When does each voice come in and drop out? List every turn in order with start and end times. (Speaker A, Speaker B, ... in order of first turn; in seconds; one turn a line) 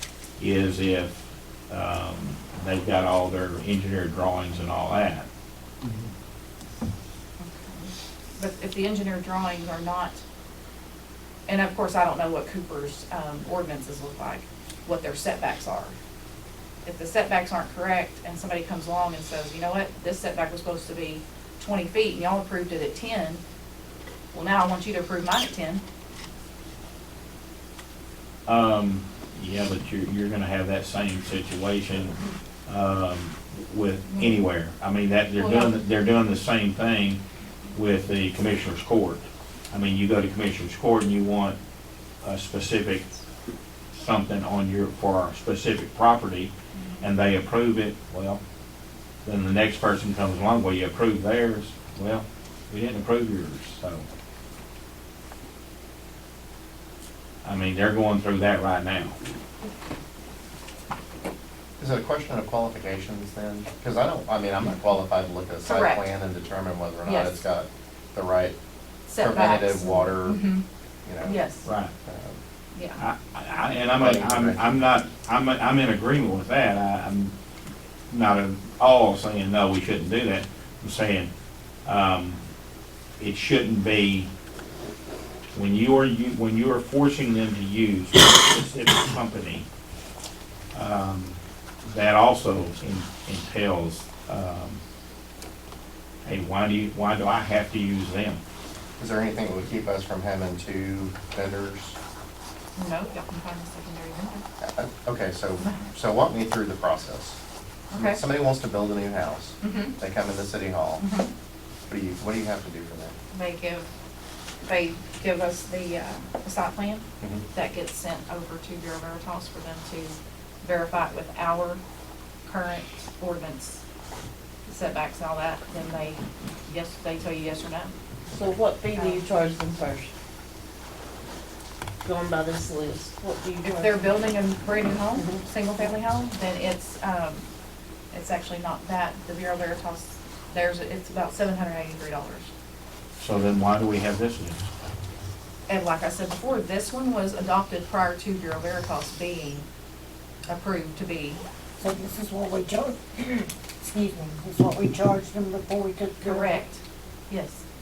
Speaker A: 0.4-5.3
Speaker B: 7.4-10.2
Speaker B: 11.5-15.9
Speaker B: 16.8-23.4
Speaker B: 24.3-25.8
Speaker A: 28.4-37.2
Speaker B: 34.1-34.3
Speaker B: 35.3-35.8
Speaker A: 37.7-41.6
Speaker A: 42.2-43.1
Speaker A: 43.9-48.4
Speaker B: 46.7-47.0
Speaker A: 49.2-54.0
Speaker A: 57.4-59.2
Speaker C: 61.8-68.5
Speaker B: 65.6-66.0
Speaker B: 67.0-67.4
Speaker B: 69.1-70.6
Speaker C: 69.2-70.4
Speaker C: 71.0-71.4
Speaker B: 71.2-71.7
Speaker A: 71.6-71.9
Speaker C: 72.0-72.4
Speaker B: 72.7-73.0
Speaker A: 73.0-77.3
Speaker C: 74.0-74.6
Speaker A: 78.1-81.3
Speaker A: 81.8-82.4
Speaker A: 83.2-84.3
Speaker A: 85.5-89.7
Speaker A: 90.7-94.8
Speaker A: 96.2-98.4
Speaker C: 99.0-102.0
Speaker B: 102.8-104.4
Speaker C: 104.6-107.4
Speaker B: 107.9-108.2
Speaker C: 107.9-111.0
Speaker B: 109.6-109.9
Speaker B: 111.0-111.3
Speaker C: 111.9-113.2
Speaker B: 113.3-113.9
Speaker B: 114.6-121.8
Speaker C: 117.2-117.5
Speaker B: 122.4-123.8
Speaker B: 124.7-127.9
Speaker D: 128.3-130.1
Speaker B: 128.9-129.2
Speaker D: 132.0-134.2
Speaker B: 133.6-137.4
Speaker D: 135.2-135.4
Speaker B: 138.1-142.5
Speaker A: 143.2-144.7
Speaker B: 145.7-149.7
Speaker B: 150.5-151.4
Speaker E: 151.8-156.6
Speaker B: 156.2-157.6